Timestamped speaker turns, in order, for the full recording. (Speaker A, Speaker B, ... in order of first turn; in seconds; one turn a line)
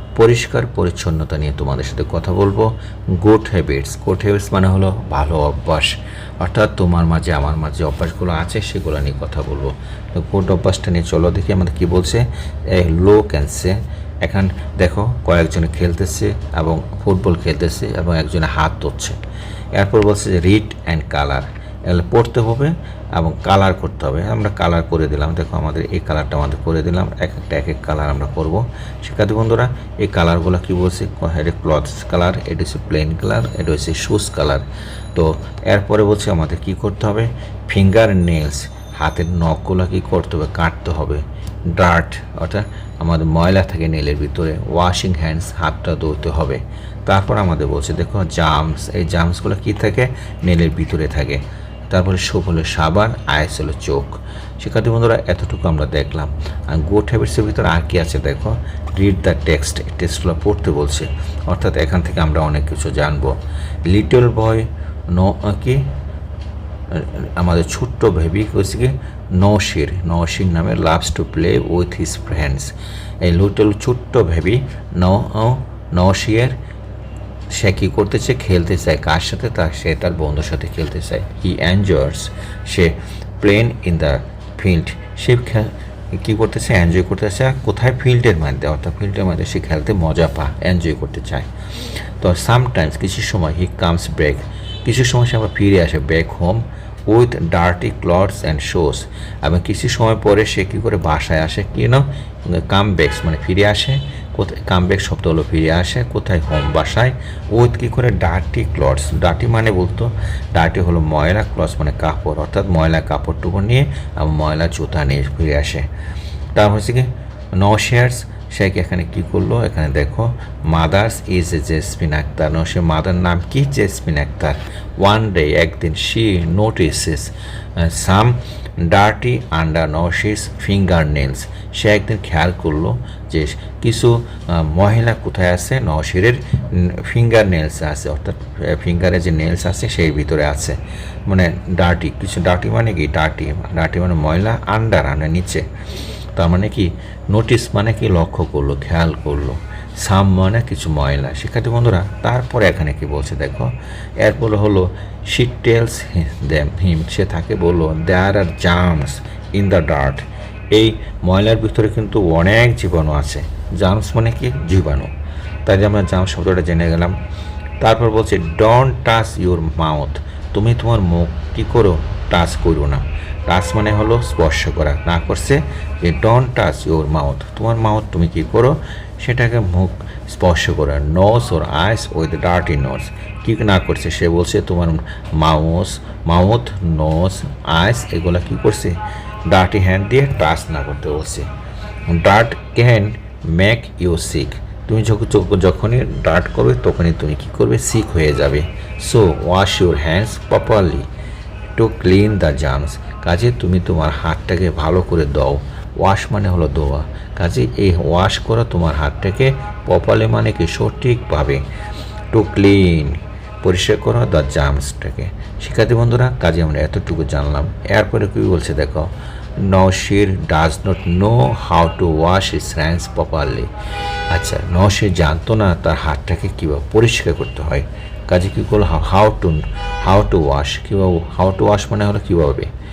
Speaker A: 0.1-19.2
Speaker A: 19.7-65.9
Speaker A: 66.9-76.6
Speaker A: 77.5-91.5
Speaker A: 92.2-115.9
Speaker A: 116.5-145.7
Speaker A: 146.3-165.1
Speaker A: 165.7-167.2
Speaker A: 167.8-191.5
Speaker A: 192.1-201.1
Speaker A: 201.8-211.7
Speaker A: 212.3-223.7
Speaker A: 224.3-232.7